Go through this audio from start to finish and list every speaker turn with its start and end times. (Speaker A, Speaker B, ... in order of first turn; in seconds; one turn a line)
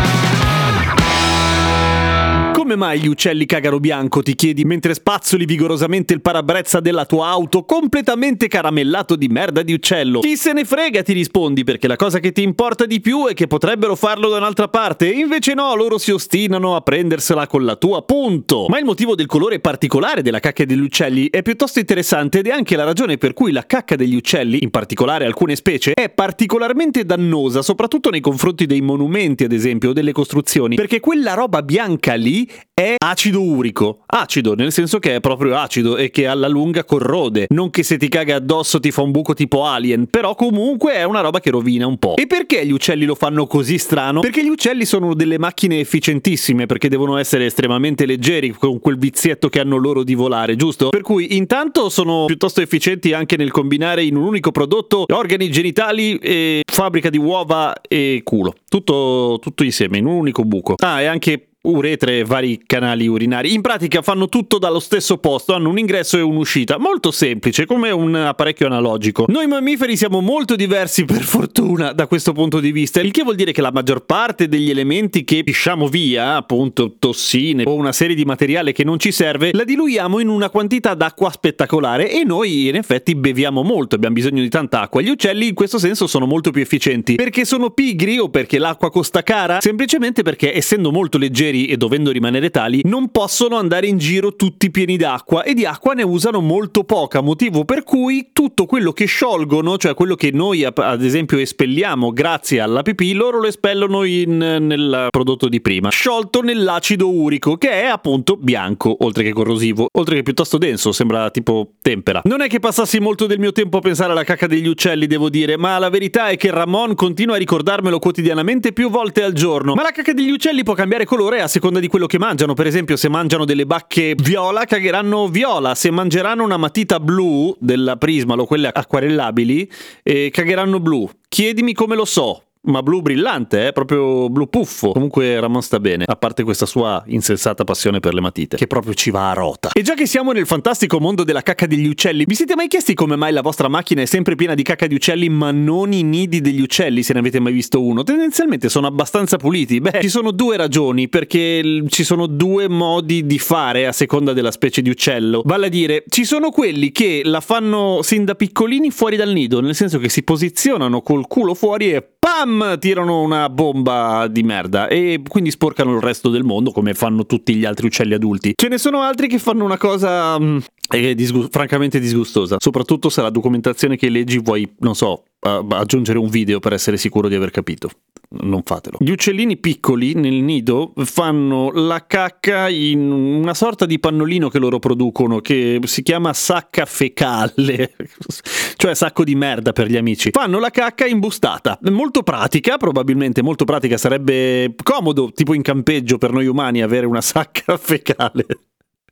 Speaker A: 2.5-198.6